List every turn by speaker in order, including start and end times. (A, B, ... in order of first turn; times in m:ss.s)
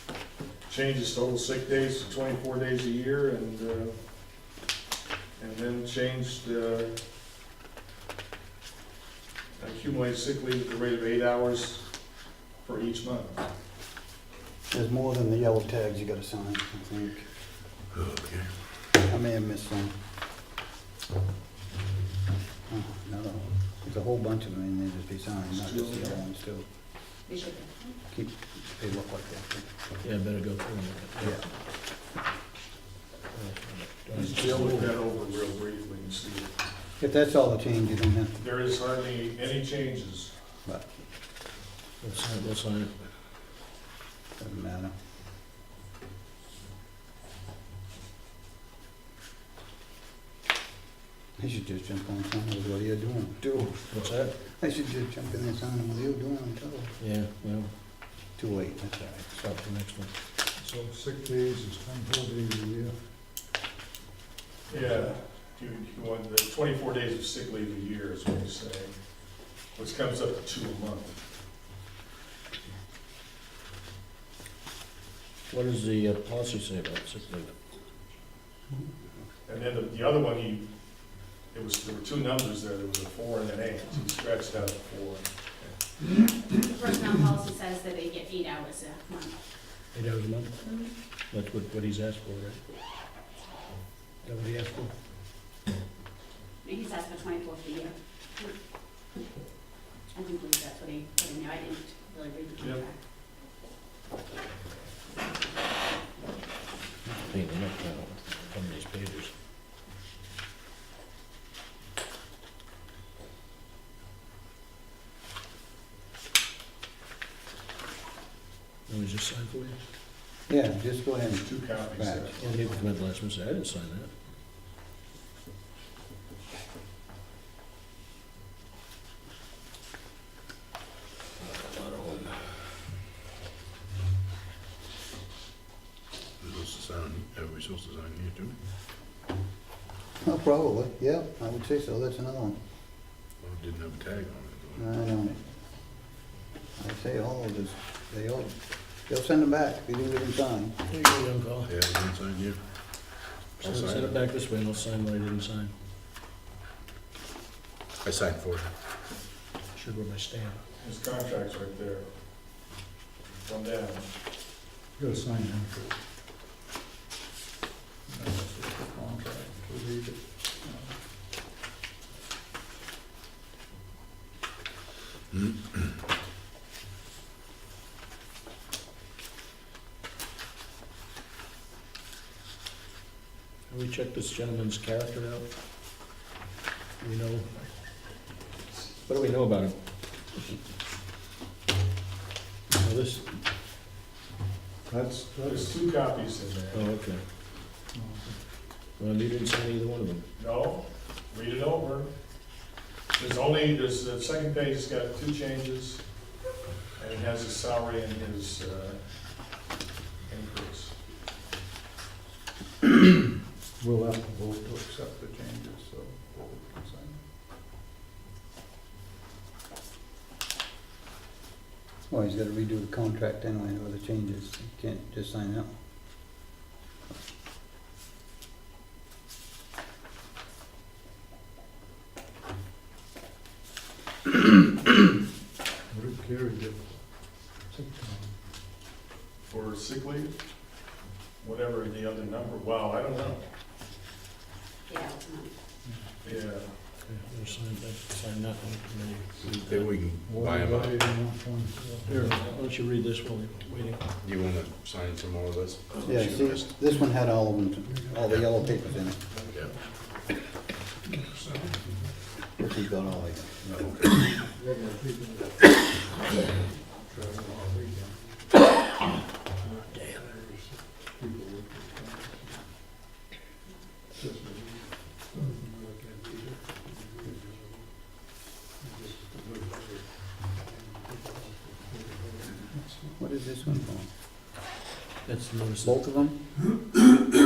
0:00.7-0:04.0 A
0:05.4-0:07.0 A
0:09.6-0:11.9 A
0:12.6-0:13.4 A
0:14.7-0:17.2 B
0:17.9-0:18.5 C
0:19.0-0:19.9 B
0:22.7-0:26.6 B
0:25.5-0:26.2 A
0:27.3-0:28.0 D
0:28.1-0:29.7 B
0:30.0-0:31.4 E
0:33.3-0:34.9 E
0:34.1-0:36.5 A
0:37.0-0:38.4 B
0:38.4-0:40.3 A
0:42.0-0:42.9 E
0:44.4-0:44.9 B
0:51.4-0:53.7 B
0:53.9-0:54.3 E
0:54.6-0:56.9 B
0:57.0-0:57.7 E
0:58.4-0:59.3 B
0:59.4-1:00.1 E
1:00.6-1:03.0 F
1:04.7-1:11.2 A
1:15.5-1:17.5 E
1:19.5-1:20.7 A
1:21.5-1:25.8 A
1:26.5-1:29.4 D
1:29.9-1:30.6 E
1:30.6-1:30.9 D
1:31.3-1:32.6 E
1:34.2-1:34.9 E
1:36.6-1:38.5 D
1:40.1-1:43.0 D
1:42.6-1:42.8 A
1:47.2-1:49.3 E
1:58.9-1:59.8 E
2:00.5-2:02.3 B
2:01.4-2:02.6 A
2:02.4-2:04.1 E
2:11.5-2:12.4 E
2:16.4-2:18.6 C
2:20.2-2:22.6 B
2:23.4-2:24.8 C
2:24.8-2:25.4 B
2:26.8-2:30.7 B
2:30.9-2:31.7 E
2:31.7-2:32.6 C
2:33.6-2:35.7 E
2:33.6-2:34.2 C
2:38.0-2:38.7 C
2:39.8-2:40.6 E
2:40.8-2:42.1 A
2:43.4-2:44.1 A
2:45.0-2:46.0 F
2:48.1-2:51.0 F
2:55.3-2:55.8 C
3:03.7-3:05.5 E
3:07.0-3:07.5 E
3:09.1-3:09.8 E
3:12.8-3:13.4 E
3:14.9-3:15.8 F
3:15.4-3:16.9 A
3:16.7-3:17.2 E
3:17.9-3:18.3 F
3:19.0-3:20.2 E
3:20.4-3:22.1 A
3:23.1-3:26.1 A
3:27.0-3:29.0 A
3:30.3-3:31.0 A
3:33.8-3:37.2 F
3:42.1-3:45.7 B
3:55.9-3:58.3 F
3:59.5-4:00.3 A
4:01.4-4:03.4 A
4:04.9-4:05.5 D
4:05.8-4:06.1 F
4:06.2-4:06.8 A
4:07.0-4:10.0 E
4:09.6-4:11.0 C
4:10.3-4:12.4 F
4:12.1-4:14.0 E
4:14.2-4:16.7 C
4:16.0-4:19.2 B
4:19.2-4:19.7 F
4:21.2-4:22.1 F
4:22.6-4:23.8 B
4:23.7-4:24.2 C
4:24.6-4:25.6 F
4:26.9-4:28.2 F
4:29.6-4:32.6 F
4:29.9-4:30.2 E
4:34.2-4:37.8 F
4:38.8-4:43.2 F
4:43.2-4:44.1 B
4:45.2-4:46.3 E
4:45.8-4:46.4 B